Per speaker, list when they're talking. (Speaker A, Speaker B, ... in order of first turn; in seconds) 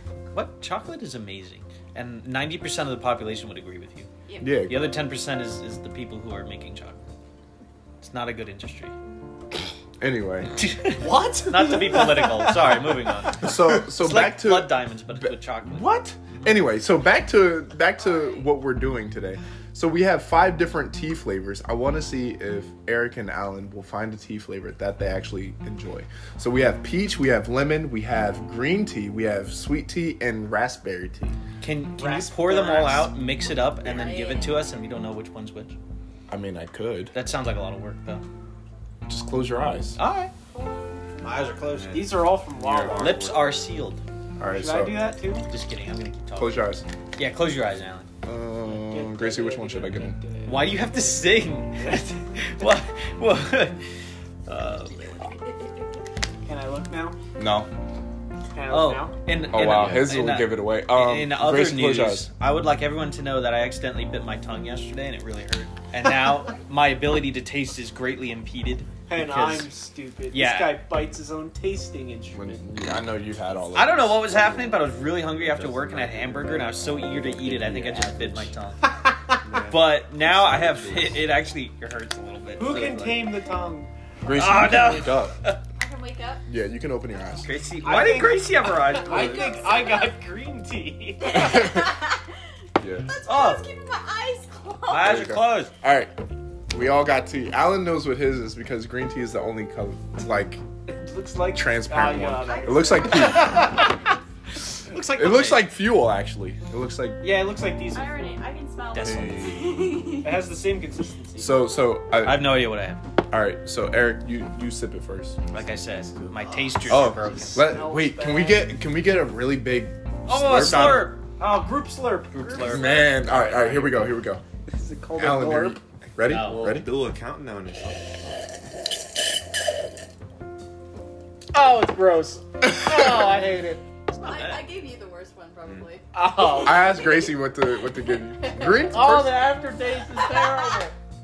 Speaker A: 0.3-4.1, 4.7-7.0, 8.0-8.9, 10.6-15.9, 31.6-35.7, 37.1-38.2, 40.0-40.3, 41.2-42.1, 42.9-44.0, 45.5-48.1, 50.5-53.8, 54.5-55.2, 58.7-69.6, 70.3-70.8, 73.7-78.8, 79.7-83.3, 84.3-85.6, 87.4-89.6, 93.3-93.6, 94.9-95.7, 104.9-105.7, 108.9-109.5, 112.2-113.0, 115.5-117.7, 120.3-121.2, 122.3-123.9, 126.2-126.7, 134.1-134.7
Speaker B: 4.3-4.6, 18.0-18.5, 33.8-34.6, 40.5-41.6, 55.1-55.7, 85.8-86.5, 88.9-90.1, 91.2-92.3, 93.0-95.2, 102.2-104.2, 107.9-110.4, 134.2-139.0, 140.1-140.8
Speaker C: 4.4-4.9, 10.0-10.5, 13.4-31.4, 36.3-37.1, 39.0-40.0, 44.4-45.1, 46.3-46.9, 48.2-50.2, 57.4-57.7, 59.5-62.3, 72.3-74.5, 84.2-85.4, 86.5-87.5, 91.4-91.9, 92.8-93.1, 95.0-96.1, 96.7-100.6, 101.5-103.9, 105.1-107.2, 111.4-112.7, 113.3-115.4, 116.9-121.1, 122.6-124.4, 125.2-127.0, 136.5-139.5
Speaker D: 11.0-12.5, 32.0-33.1, 41.9-43.3, 44.5-45.5, 48.6-51.2, 51.8-52.0, 56.5-57.2, 58.5-59.1, 69.1-72.6, 78.9-79.4, 82.6-83.9, 87.8-91.7, 100.9-103.8, 107.2-108.4, 110.2-111.7, 117.5-118.7, 121.4-123.0, 124.7-125.8, 131.5-133.8, 136.1-137.1, 138.8-140.9
Speaker E: 41.7-43.6, 59.6-60.0, 75.3-78.5, 79.4-81.3, 109.0-109.8, 115.9-117.1, 126.3-128.2